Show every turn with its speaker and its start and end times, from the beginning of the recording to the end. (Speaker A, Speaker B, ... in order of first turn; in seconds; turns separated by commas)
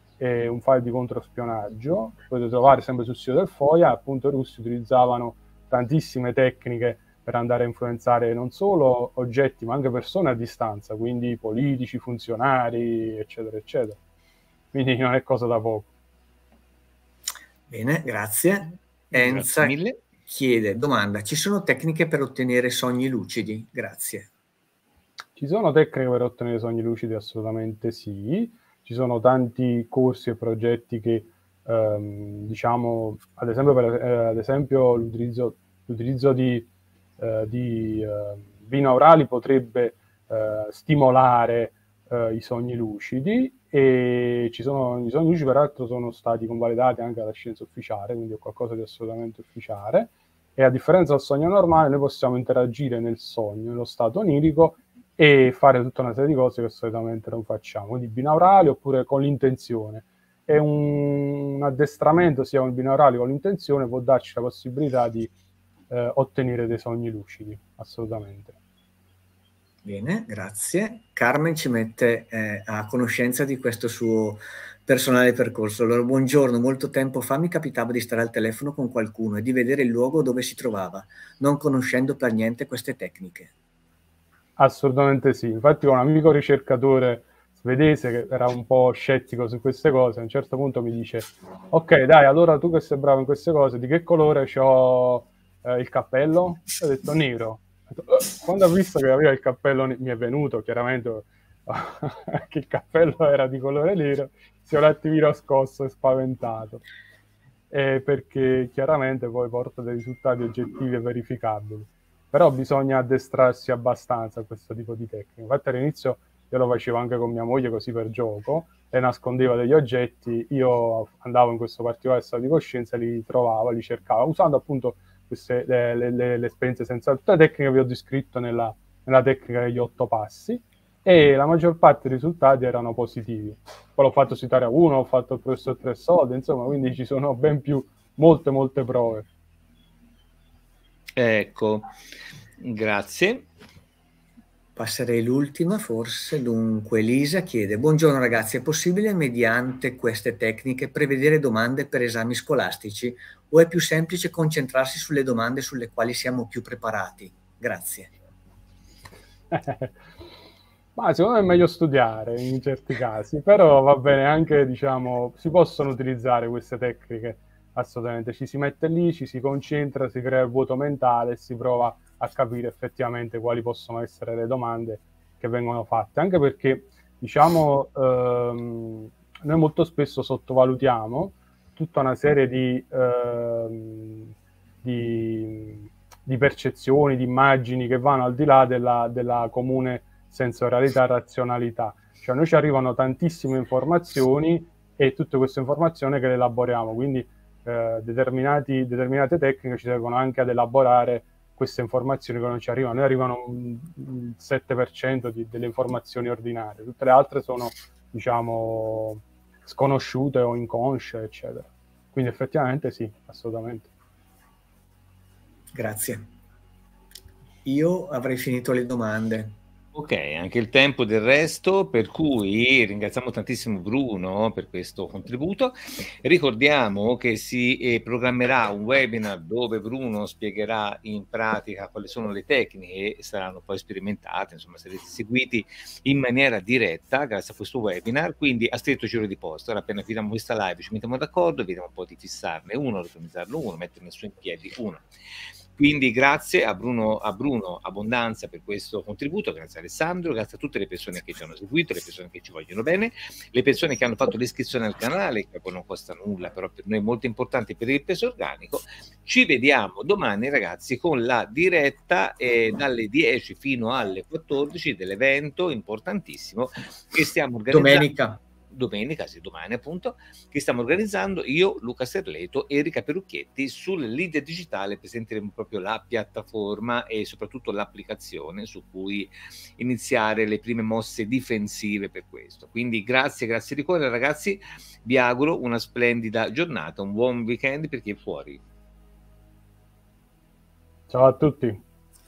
Speaker A: 0.2-14.0, Speaker A: 14.7-15.9, Speaker B: 17.7-24.3, Speaker C: 19.1-20.0, Speaker A: 25.4-36.7, Speaker A: 37.2-65.3, Speaker A: 65.9-68.6, Speaker B: 69.8-83.5, Speaker A: 84.6-106.8, Speaker A: 107.7-139.3, Speaker C: 141.2-141.9, Speaker C: 142.6-143.5, Speaker B: 144.8-158.1, Speaker A: 159.5-160.0, Speaker A: 161.0-184.3, Speaker A: 184.8-213.9, Speaker B: 215.7-216.3, Speaker B: 217.7-219.6, Speaker C: 219.9-245.1, Speaker C: 245.8-268.1, Speaker B: 267.7-268.4, Speaker C: 268.7-288.6, Speaker A: 291.1-291.8